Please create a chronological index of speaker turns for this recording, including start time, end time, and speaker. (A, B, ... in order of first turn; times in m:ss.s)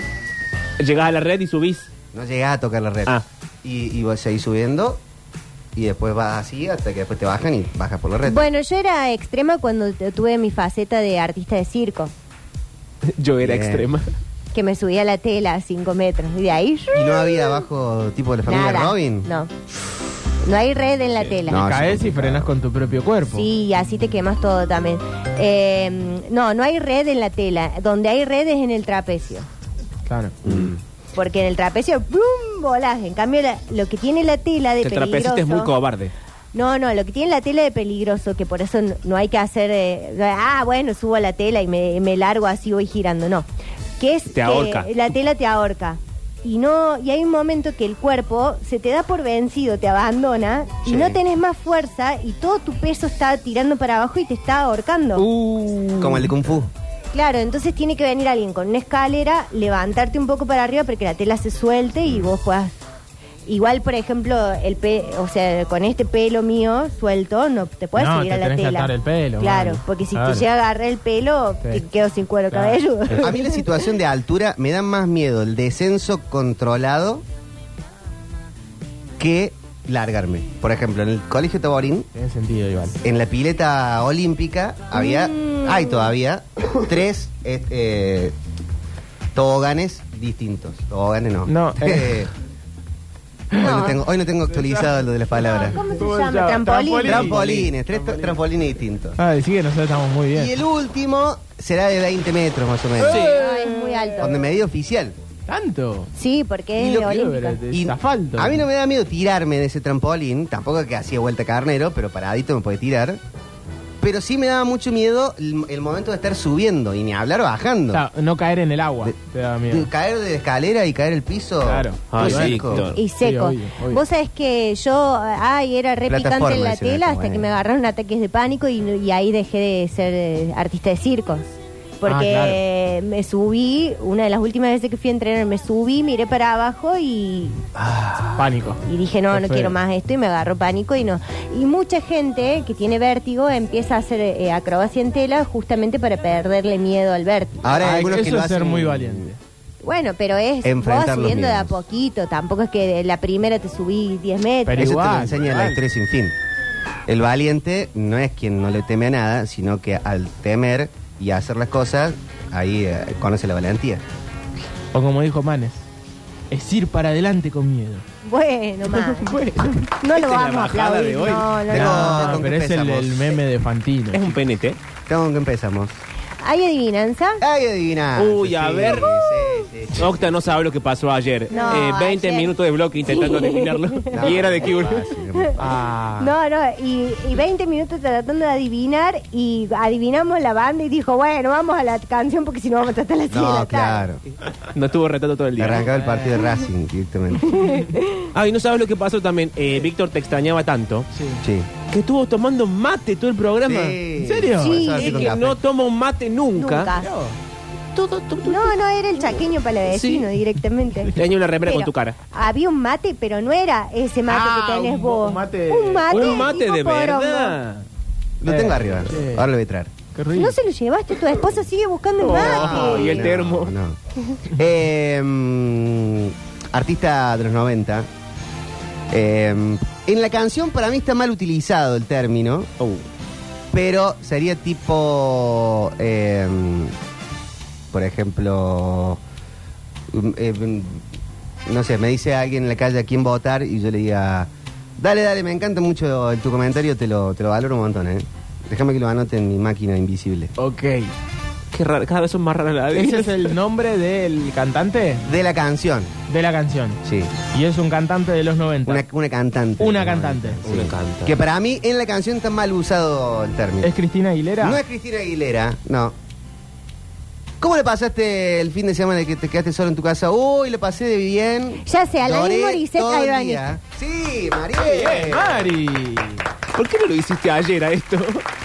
0:00.8-0:01.9 A
0:02.1-0:05.0 B
0:05.7-0:08.4 B
0:08.2-0:12.1 C
0:13.0-0:14.1 A
0:13.4-0:13.9 B
0:14.5-0:17.6 C
0:16.9-0:19.3 B
0:18.5-0:19.5 C
0:20.4-0:21.7 C
0:21.4-0:22.5 B
0:21.5-0:23.5 D
0:23.3-0:29.4 C
0:30.1-0:30.4 D
0:30.4-0:30.8 B
0:31.1-0:35.7 C
0:34.8-0:36.1 A
0:36.5-0:43.5 C
0:44.0-0:55.2 C
0:44.3-0:44.9 A
0:50.8-0:51.2 B
0:55.2-0:56.3 A
0:55.2-0:56.1 D
0:56.0-0:56.7 B
0:57.1-1:02.8 C
1:03.5-1:13.7 C
1:08.0-1:10.4 D
1:12.5-1:12.8 D
1:13.1-1:17.2 B
1:19.2-1:22.1 B
1:22.1-1:23.0 D
1:23.0-1:28.3 B
1:24.9-1:26.1 C
1:29.3-1:32.3 B
1:31.4-1:32.2 D
1:33.6-1:35.8 B
1:33.6-1:34.0 C
1:34.5-1:38.4 D
1:35.4-1:37.3 C
1:37.0-1:39.2 B
1:39.2-1:40.5 D
1:40.3-1:43.3 B
1:43.0-1:44.2 D
1:43.1-1:44.5 C
1:44.2-1:45.2 B
1:45.5-1:46.1 D
1:46.1-1:47.6 C
1:46.8-1:48.6 D
1:47.7-1:53.2 B
1:54.0-1:58.0 B
1:57.9-1:59.9 D
1:59.7-2:02.8 B
2:01.6-2:04.0 D
2:02.1-2:03.0 A
2:02.9-2:17.6 C
2:06.1-2:07.4 B
2:12.0-2:12.6 D
2:17.8-2:18.4 B
2:18.4-2:19.8 D
2:18.8-2:27.6 C
2:27.6-2:29.3 B
2:27.7-2:29.4 D
2:29.8-2:35.0 C
2:30.6-2:31.8 B
2:34.6-2:35.8 D
2:34.8-2:36.3 B
2:37.1-2:44.0 B
2:44.9-2:45.8 D
2:46.5-2:48.0 D
2:48.2-2:52.4 C
2:49.1-2:49.7 D
2:50.1-2:51.6 A
2:51.7-2:53.4 B
2:51.7-2:54.4 D
2:54.1-2:54.8 A
2:55.1-2:56.0 B
2:56.4-2:57.4 C
2:57.4-3:00.1 B
2:58.2-2:59.1 A
2:59.9-3:05.1 A
3:01.5-3:02.5 C
3:03.0-3:04.5 C
3:04.1-3:05.6 B
3:05.6-3:06.3 D
3:06.2-3:14.0 C
3:13.3-3:14.2 B
3:14.7-3:15.9 A
3:15.6-3:17.6 B
3:15.9-3:16.4 D
3:17.6-3:18.2 C
3:18.3-3:21.1 A
3:21.1-3:21.4 D
3:21.4-3:21.7 B
3:21.9-3:24.0 A
3:23.6-3:25.6 B
3:24.2-3:25.0 D
3:24.6-3:25.3 C
3:25.0-3:26.9 A
3:26.6-3:27.1 C
3:27.0-3:27.4 D
3:27.9-3:29.3 A
3:28.4-3:37.6 C
3:29.8-3:30.3 A
3:31.1-3:32.2 A
3:34.3-3:36.4 D
3:36.1-3:37.8 A
3:38.4-3:39.9 B
3:38.4-3:39.5 D
3:40.1-3:40.6 D
3:40.4-3:43.3 C
3:42.2-3:43.7 A
3:42.3-3:48.1 B
3:49.1-3:52.7 B
3:52.8-3:53.0 A
3:53.7-3:56.9 B
3:57.9-3:59.2 B
4:00.1-4:01.0 B
4:01.6-4:10.5 B
4:10.6-4:11.1 D
4:11.7-4:13.5 A
4:12.9-4:15.2 D
4:15.2-4:16.1 B
4:16.3-4:17.0 D
4:17.0-4:17.3 B
4:17.5-4:19.0 D
4:18.8-4:23.9 B
4:19.8-4:20.6 D
4:20.6-4:21.3 A
4:23.8-4:24.8 D
4:24.6-4:26.1 B
4:27.6-4:35.7 B
4:31.8-4:33.6 C
4:34.8-4:36.4 D
4:36.7-4:38.4 A